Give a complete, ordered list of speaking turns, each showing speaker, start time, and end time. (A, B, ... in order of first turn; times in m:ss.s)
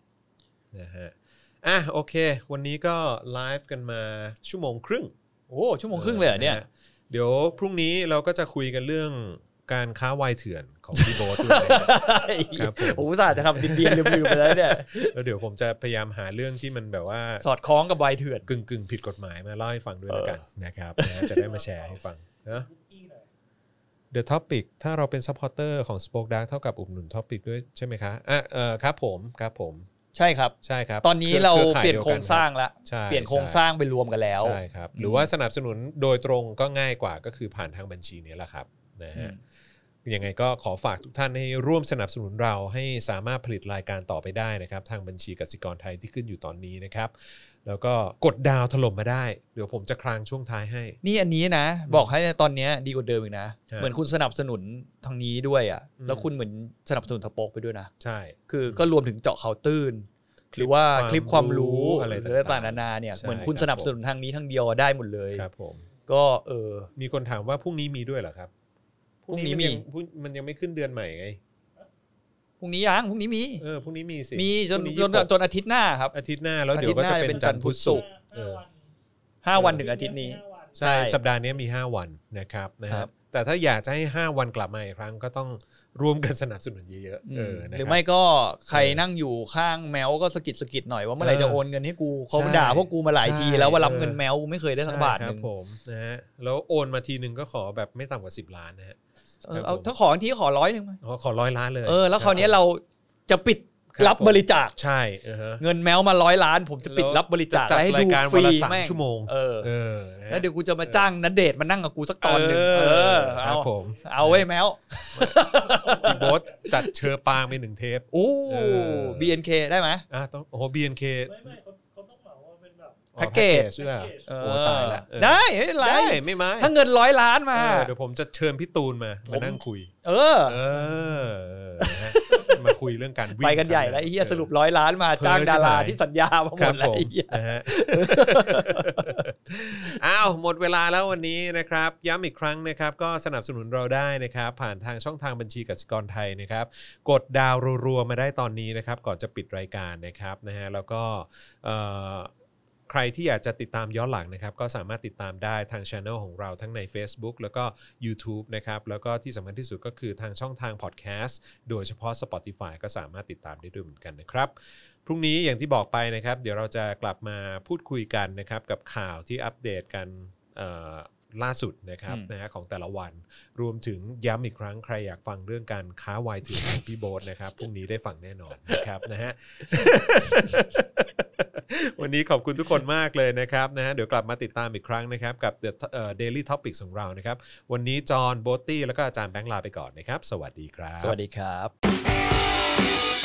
0:00.7-0:05.1 A
0:05.5-0:06.6 B
0:05.9-0:17.4 A
0:10.9-0:15.1 B
0:17.4-0:18.5 B
0:18.5-0:22.7 A
0:20.1-0:20.4 B
0:21.0-0:21.4 B
0:21.4-0:23.3 C
0:24.1-0:29.9 A
0:30.1-0:35.3 B
0:30.6-0:33.6 A
0:34.4-0:39.4 A
0:40.0-0:51.0 A
0:51.0-0:57.9 B
0:51.9-0:52.1 A
0:56.0-0:56.3 A
0:58.0-0:58.9 A
0:58.5-1:05.5 B
1:00.5-1:03.9 A
1:05.3-1:05.8 A
1:06.1-1:06.9 B
1:07.0-1:08.5 A
1:09.2-1:11.4 A
1:09.3-1:09.8 B
1:12.6-1:13.6 B
1:13.6-1:15.3 A
1:14.4-1:16.2 B
1:16.1-1:18.6 A
1:16.7-1:18.1 B
1:17.3-1:18.8 C
1:19.4-1:21.2 B
1:19.6-1:19.8 A
1:19.6-1:20.9 C
1:20.8-1:28.0 A
1:27.2-1:35.5 B
1:28.7-1:29.0 A
1:31.2-1:31.6 A
1:32.3-1:34.2 A
1:34.8-1:39.0 A
1:39.4-1:41.0 B
1:39.5-1:39.9 A
1:41.0-1:42.6 A
1:41.8-1:44.8 B
1:43.9-1:45.6 A
1:45.6-1:49.7 B
1:46.8-1:51.1 A
1:50.3-1:57.1 B
1:52.2-1:54.5 A
1:53.6-1:54.1 C
1:55.1-1:55.5 A
1:55.3-1:56.7 C
1:56.0-1:59.4 A
1:58.1-2:00.0 B
2:00.1-2:01.6 A
2:01.3-2:03.1 C
2:03.2-2:06.7 A
2:03.2-2:03.7 B
2:03.7-2:04.9 C
2:04.3-2:07.9 B
2:07.6-2:09.9 A
2:09.3-2:10.6 B
2:10.5-2:14.5 A
2:11.8-2:12.6 B
2:13.4-2:20.0 B
2:15.2-2:16.0 A
2:16.5-2:32.3 A
2:32.9-3:11.2 A
3:11.0-3:11.7 B